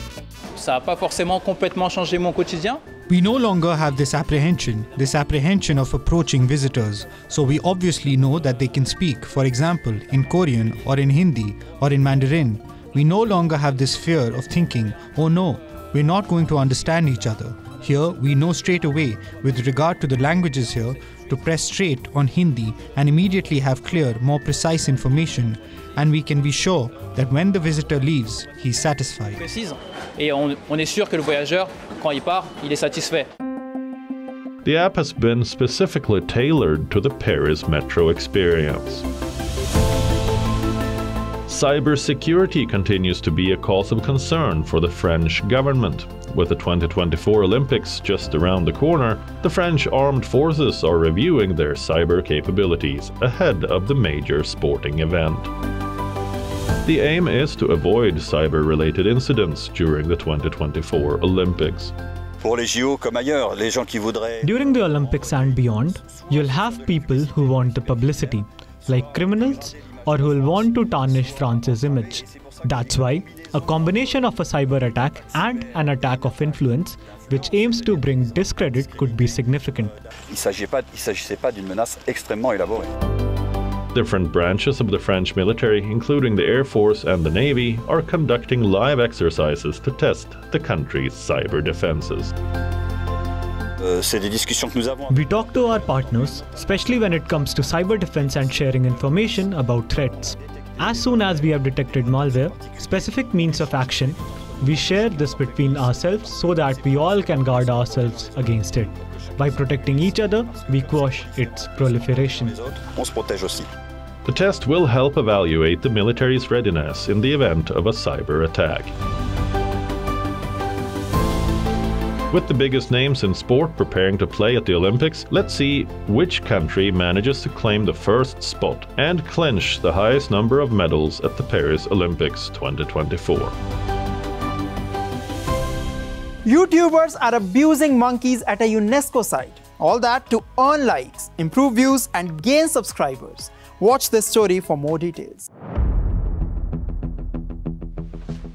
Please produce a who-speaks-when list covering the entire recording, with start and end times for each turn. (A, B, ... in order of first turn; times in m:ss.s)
0:00.6-0:02.8 A
0:03.1-0:29.4 B
0:29.4-0:33.2 A
0:34.6-0:39.0 C
0:41.5-0:55.5 C
0:56.8-1:01.9 C
1:02.4-1:04.4 D
1:04.4-1:20.0 E
1:20.3-1:22.9 D
1:23.9-1:32.3 C
1:33.8-1:35.1 D
1:35.1-1:52.6 E
1:52.7-1:53.7 D
1:54.2-1:58.9 C
2:02.3-2:13.6 C
2:16.4-2:25.5 F